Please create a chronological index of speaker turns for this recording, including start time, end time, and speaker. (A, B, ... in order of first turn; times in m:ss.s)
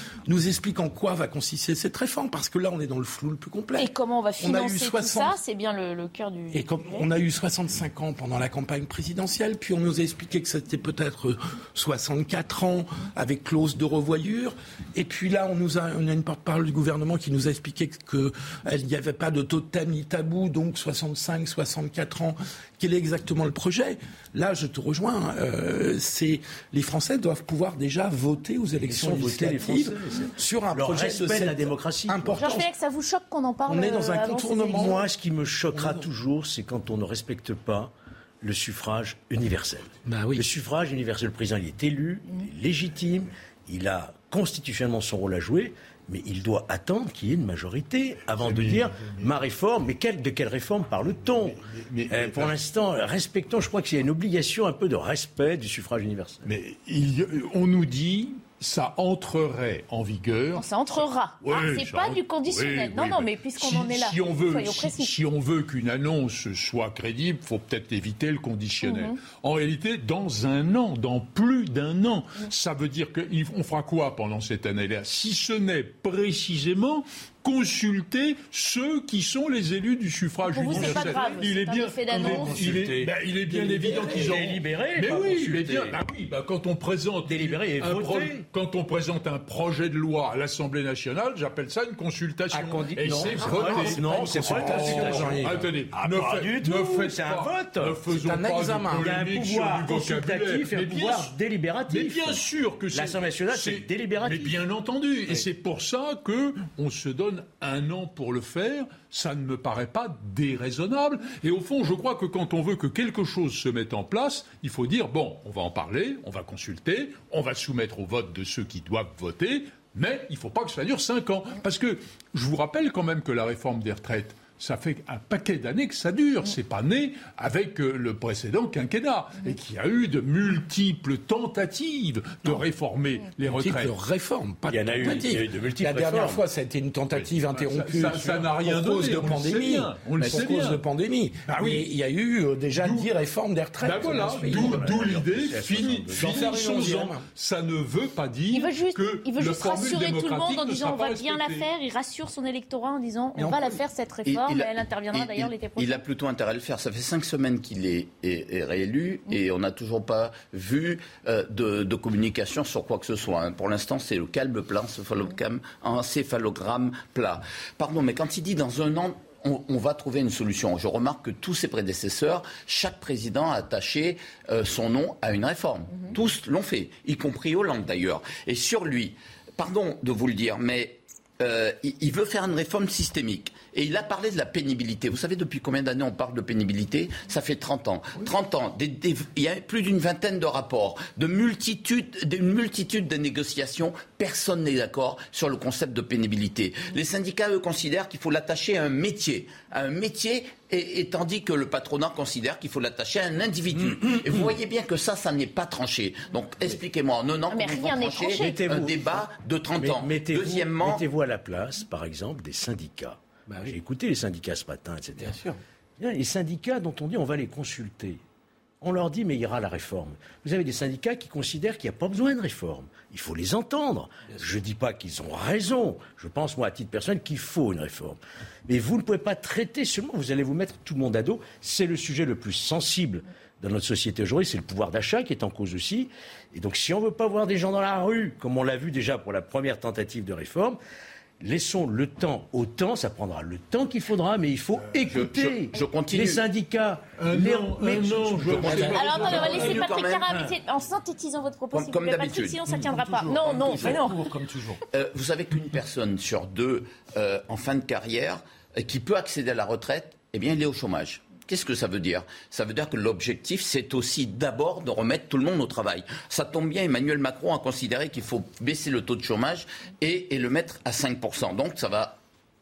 0:00.3-0:05.4 A
0:03.8-0:06.6 B
0:06.5-0:32.7 A
0:28.9-0:32.5 C
0:32.4-0:35.0 B
0:33.7-0:35.0 A
0:34.7-0:51.6 C
0:35.7-0:36.1 A
0:40.0-0:40.4 A
0:48.4-0:49.3 D
0:51.7-0:52.5 D
0:52.1-0:56.5 C
0:56.5-1:00.6 D
1:00.6-1:05.1 B
1:01.4-1:41.3 D
1:08.8-1:09.1 B
1:20.4-1:22.6 B
1:20.7-1:21.4 C
1:22.1-1:26.0 C
1:27.2-1:28.4 C
1:32.6-1:35.6 A
1:32.6-1:38.0 C
1:38.1-1:39.2 A
1:38.9-1:44.6 C
1:41.9-2:13.9 D
2:13.5-2:25.0 A
2:14.7-2:16.4 C
2:17.1-2:20.8 D
2:21.5-2:21.9 D
2:22.8-2:23.1 D
2:23.8-2:31.7 D
2:24.0-2:26.8 C
2:26.1-2:27.2 A
2:28.5-2:36.0 B
2:33.4-2:33.8 A
2:34.3-3:31.0 E
3:23.9-3:24.5 C
3:27.5-3:28.6 B
3:28.4-3:29.2 C
3:29.8-3:35.4 C
3:35.2-3:35.6 A
3:36.0-3:38.2 C
3:38.8-4:00.8 C
4:01.4-4:09.1 C
4:04.9-4:06.4 E
4:07.2-4:09.8 D
4:08.6-4:10.4 E
4:08.6-4:09.2 A
4:08.9-4:14.2 B
4:11.7-4:12.6 E
4:13.3-4:13.8 C
4:13.3-4:13.9 E
4:13.4-4:14.8 A
4:14.9-4:32.2 E